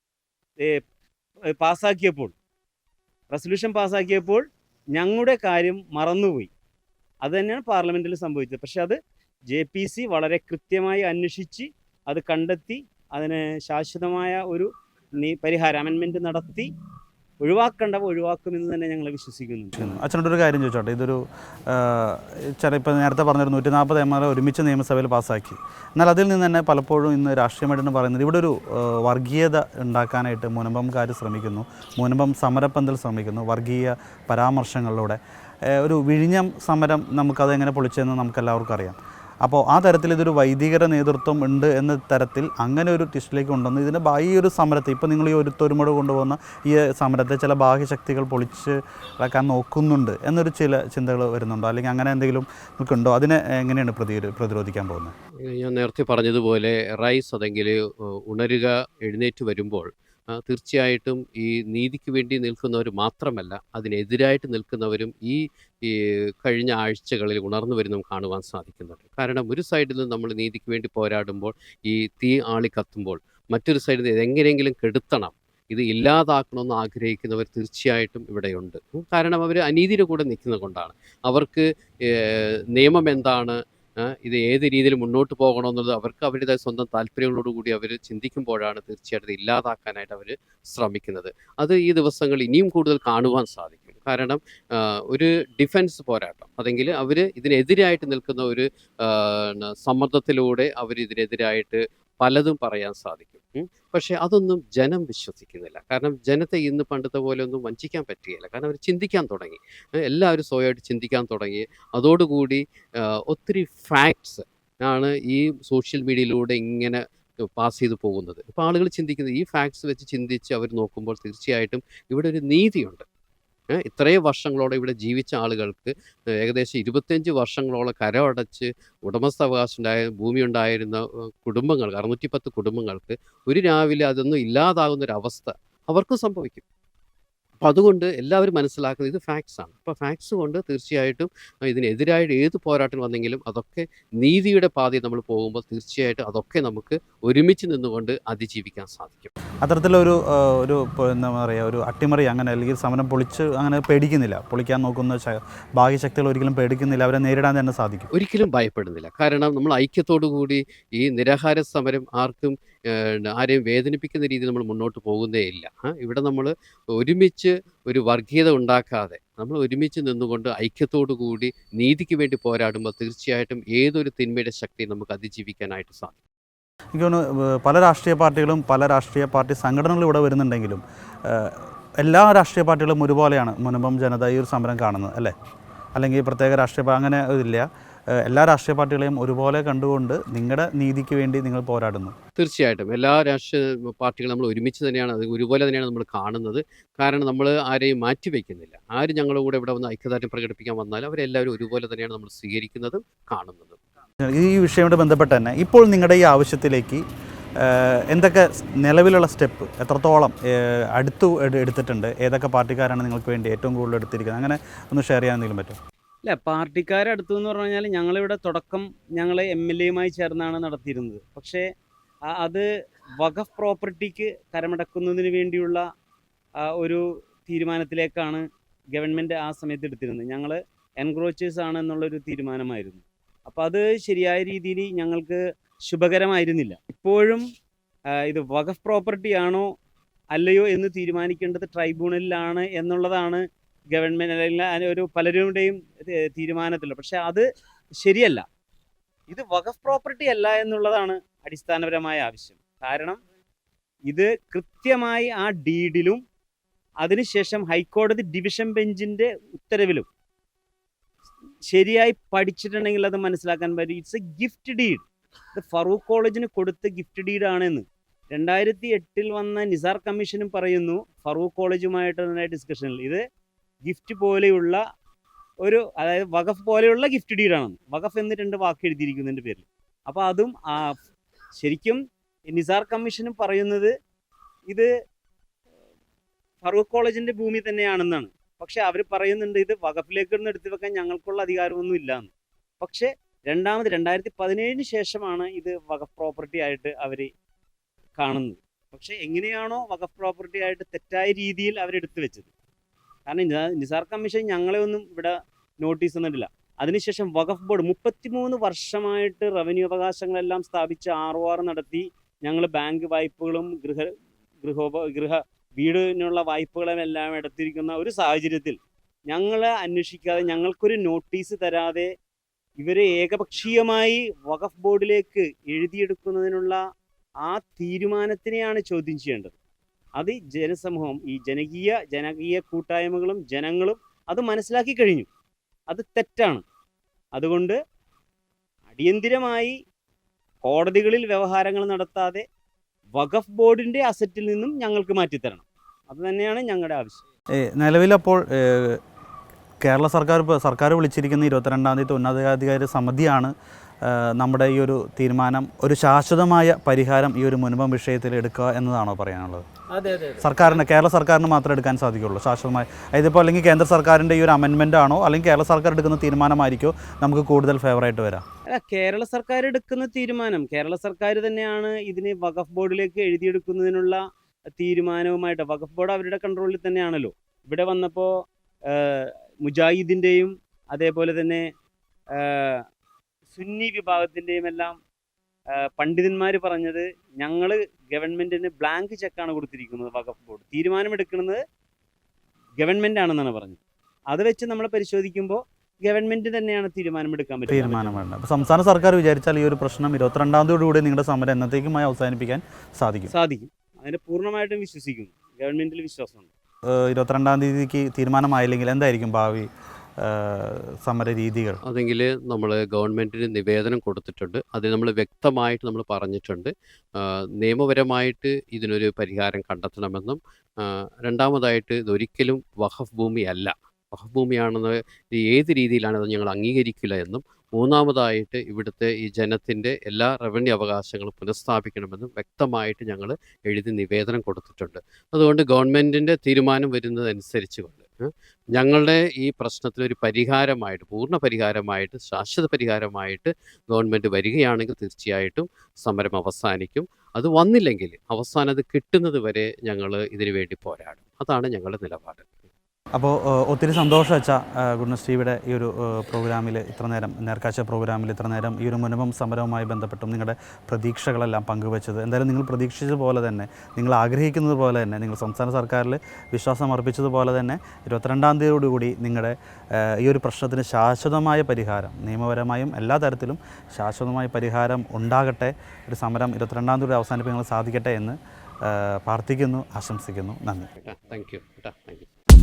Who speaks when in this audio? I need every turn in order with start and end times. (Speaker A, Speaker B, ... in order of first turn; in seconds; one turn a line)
Speaker A: 1.6-2.4
Speaker A: 3.3-6.5
Speaker A: 7.2-9.0
Speaker A: 9.5-16.7
Speaker A: 17.4-20.0
Speaker B: 19.8-55.1
Speaker C: 55.4-123.0
Speaker C: 123.7-136.6
Speaker C: 137.6-149.3
Speaker B: 149.6-158.1
Speaker C: 158.1-176.2
Speaker B: 176.9-185.3
Speaker B: 186.0-192.2
Speaker C: 192.4-203.8
Speaker B: 204.2-207.0
Speaker B: 207.6-215.8
Speaker A: 216.2-221.7
Speaker A: 222.3-222.7
Speaker A: 223.2-225.8
Speaker A: 226.6-237.4
Speaker A: 238.1-239.7
Speaker A: 240.3-247.4
Speaker A: 248.0-248.4
Speaker A: 249.3-253.2
Speaker A: 254.1-256.2
Speaker A: 257.0-260.1
Speaker A: 261.7-273.2
Speaker A: 273.9-274.8
Speaker A: 275.6-281.0
Speaker A: 281.6-283.9
Speaker A: 286.6-297.3
Speaker A: 298.2-302.5
Speaker A: 303.3-314.1
Speaker A: 314.6-318.8
Speaker A: 319.3-322.1
Speaker A: 322.8-326.8
Speaker A: 327.4-329.6
Speaker A: 330.2-335.3
Speaker A: 335.9-336.6
Speaker A: 337.4-337.8
Speaker A: 338.9-339.8
Speaker A: 340.6-342.4
Speaker A: 343.2-347.2
Speaker B: 347.6-349.0
Speaker B: 349.8-359.6
Speaker A: 359.9-360.6
Speaker B: 360.4-368.4
Speaker A: 368.7-374.2
Speaker A: 374.8-378.4
Speaker A: 378.9-381.7
Speaker A: 382.4-382.8
Speaker A: 383.5-385.0
Speaker A: 385.7-391.6
Speaker A: 392.8-393.8
Speaker A: 394.3-398.2
Speaker B: 397.7-403.3
Speaker A: 403.3-406.5
Speaker B: 406.9-409.7
Speaker B: 410.2-411.8
Speaker C: 411.9-452.7
Speaker B: 453.2-480.9
Speaker C: 481.0-482.3